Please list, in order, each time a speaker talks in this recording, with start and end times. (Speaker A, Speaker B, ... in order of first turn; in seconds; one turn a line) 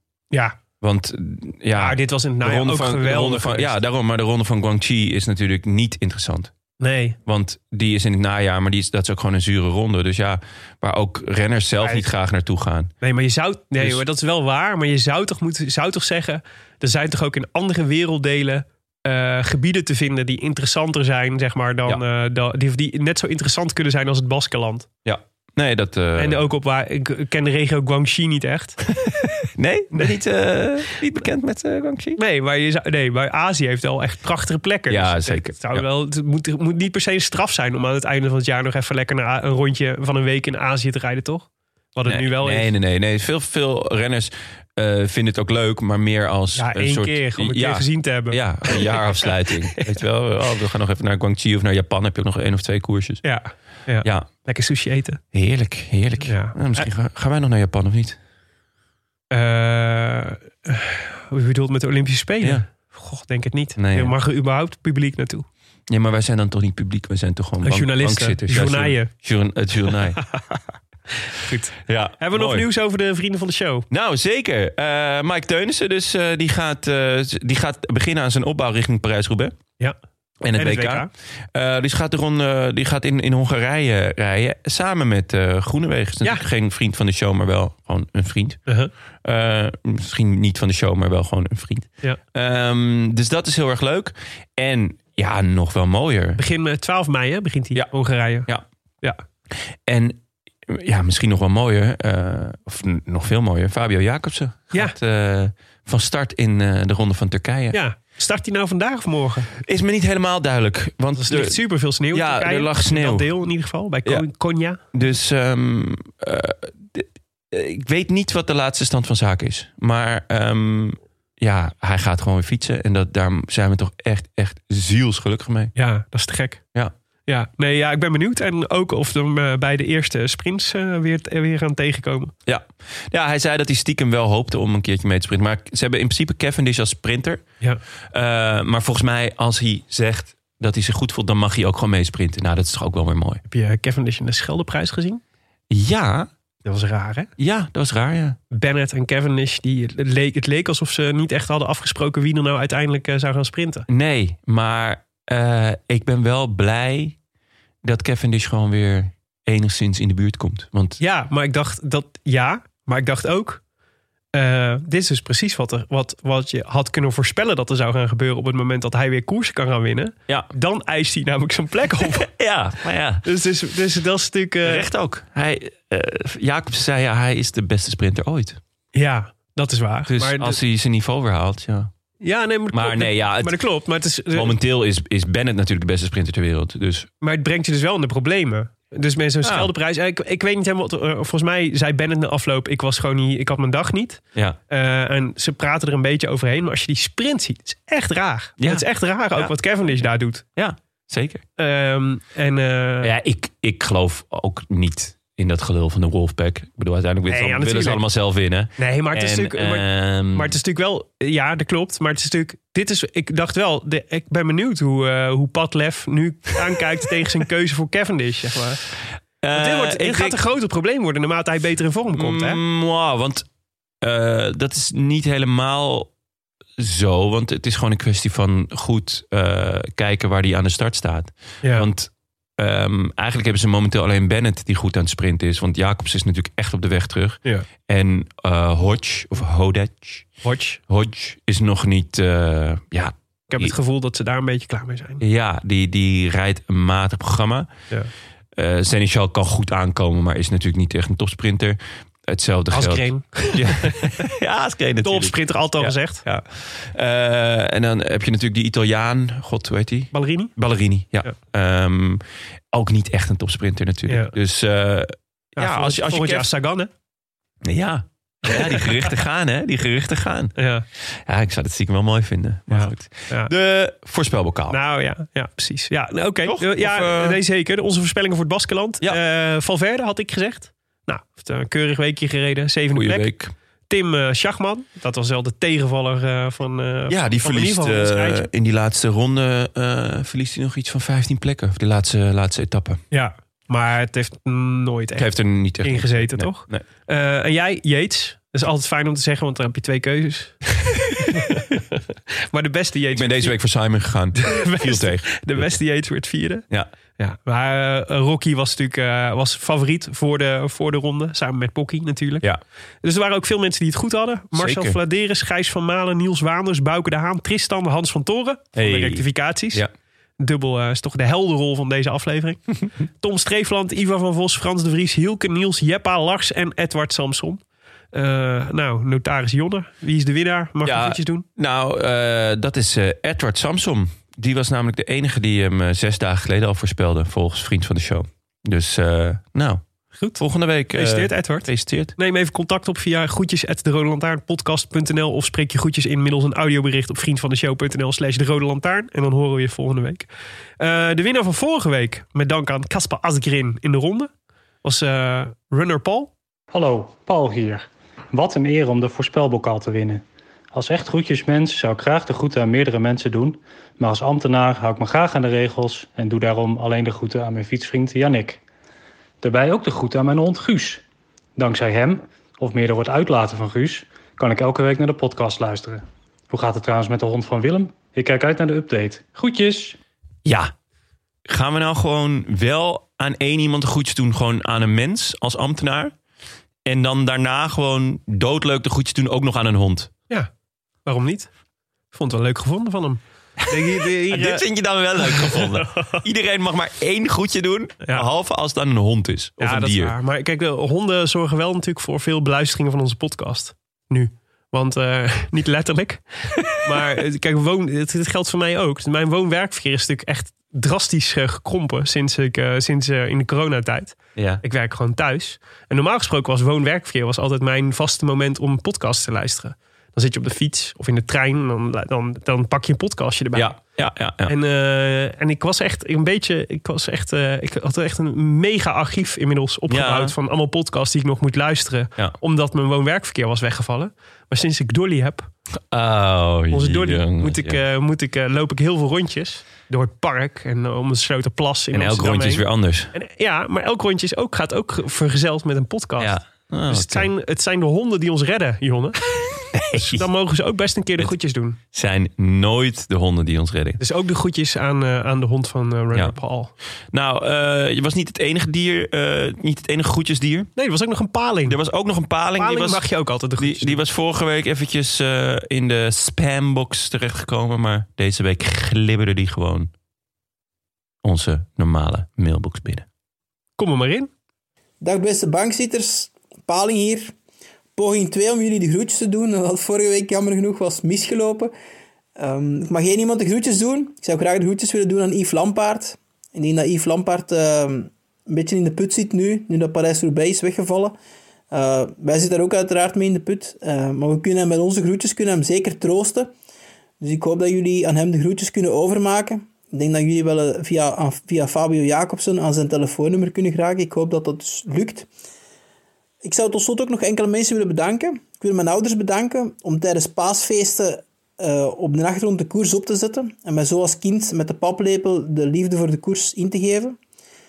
Speaker A: 0.8-6.5
Speaker B: 1.8-3.7
Speaker B: 6.8-7.2
Speaker A: 7.2-12.9
Speaker B: 11.8-12.1
Speaker B: 13.0-24.9
Speaker A: 25.0-26.4
Speaker B: 26.2-28.8
Speaker A: 29.0-32.2
Speaker B: 32.2-42.7
Speaker A: 34.9-35.8
Speaker A: 42.0-53.2
Speaker B: 46.5-49.8
Speaker B: 53.2-55.2
Speaker A: 55.3-58.2
Speaker B: 56.2-56.9
Speaker B: 59.3-65.5
Speaker A: 63.8-64.1
Speaker A: 65.9-70.2
Speaker B: 67.6-69.1
Speaker B: 70.2-70.6
Speaker B: 71.2-73.8
Speaker A: 71.9-72.7
Speaker A: 73.9-79.5
Speaker A: 80.4-88.6
Speaker B: 80.5-81.1
Speaker A: 89.2-96.4
Speaker B: 96.4-98.5
Speaker A: 99.9-107.8
Speaker B: 107.7-109.5
Speaker A: 109.6-113.3
Speaker B: 111.2-114.8
Speaker A: 114.9-125.7
Speaker B: 125.8-126.6
Speaker B: 127.3-132.3
Speaker A: 132.4-137.4
Speaker A: 138.1-143.4
Speaker B: 143.5-145.2
Speaker A: 145.7-146.3
Speaker B: 146.6-147.3
Speaker A: 147.4-148.4
Speaker B: 148.5-153.8
Speaker A: 153.9-157.2
Speaker A: 157.8-161.0
Speaker B: 161.0-163.6
Speaker B: 164.3-172.3
Speaker A: 172.2-173.2
Speaker B: 173.2-174.9
Speaker A: 174.6-178.6
Speaker B: 178.9-180.6
Speaker A: 180.1-181.9
Speaker B: 182.2-184.5
Speaker A: 182.7-183.6
Speaker A: 184.3-187.1
Speaker B: 187.2-200.4
Speaker A: 189.4-189.7
Speaker A: 198.6-199.5
Speaker A: 200.6-201.4
Speaker B: 201.6-203.1
Speaker A: 203.0-210.6
Speaker B: 207.3-208.0
Speaker B: 208.8-218.8
Speaker A: 219.4-220.4
Speaker B: 219.5-222.6
Speaker A: 222.1-223.4
Speaker A: 224.0-226.1
Speaker A: 226.8-240.3
Speaker B: 240.4-240.8
Speaker A: 240.9-243.7
Speaker B: 243.5-245.2
Speaker A: 245.2-247.7
Speaker A: 248.6-262.2
Speaker B: 252.7-254.1
Speaker B: 255.0-256.2
Speaker B: 260.1-260.5
Speaker A: 262.7-266.5
Speaker B: 264.1-264.3
Speaker B: 265.6-266.9
Speaker A: 267.6-274.8
Speaker B: 268.5-269.1
Speaker B: 270.6-270.8
Speaker B: 272.7-273.5
Speaker B: 274.7-283.3
Speaker A: 276.4-277.4
Speaker A: 282.9-283.5
Speaker B: 283.9-288.5
Speaker A: 287.1-293.0
Speaker B: 293.1-295.3
Speaker A: 295.1-296.8
Speaker B: 295.8-303.5
Speaker A: 303.1-305.8
Speaker B: 304.4-306.6
Speaker B: 307.2-312.4
Speaker B: 313.0-319.8
Speaker A: 314.5-315.0
Speaker A: 318.7-319.9
Speaker B: 320.4-322.6
Speaker B: 323.2-327.6
Speaker B: 328.1-331.4
Speaker A: 330.8-339.8
Speaker A: 340.4-342.1
Speaker B: 340.9-350.3
Speaker B: 350.8-354.3
Speaker B: 354.8-356.3
Speaker C: 356.7-368.6
Speaker C: 369.4-371.0
Speaker C: 371.6-380.0
Speaker A: 380.4-380.7
Speaker A: 381.5-386.1
Speaker A: 386.9-390.1
Speaker B: 391.0-391.5
Speaker B: 392.1-394.6
Speaker A: 393.7-400.1
Speaker B: 395.2-396.2
Speaker B: 399.6-423.8
Speaker A: 414.4-414.6
Speaker A: 423.5-424.5
Speaker B: 424.4-435.5
Speaker A: 429.9-430.3
Speaker A: 435.9-437.8
Speaker B: 436.7-446.4
Speaker A: 441.9-443.1
Speaker A: 446.2-447.3
Speaker B: 446.9-449.2
Speaker A: 449.7-450.2
Speaker B: 449.9-451.8
Speaker A: 451.9-454.0
Speaker B: 454.0-456.7
Speaker A: 457.1-460.7
Speaker B: 460.8-461.8
Speaker A: 461.6-463.0
Speaker B: 462.6-464.0
Speaker A: 463.6-469.9
Speaker A: 471.2-473.1
Speaker B: 473.8-474.3
Speaker D: 475.0-477.3
Speaker D: 477.9-481.7
Speaker D: 482.4-491.1
Speaker D: 491.7-496.5
Speaker D: 497.2-505.3
Speaker D: 506.4-517.2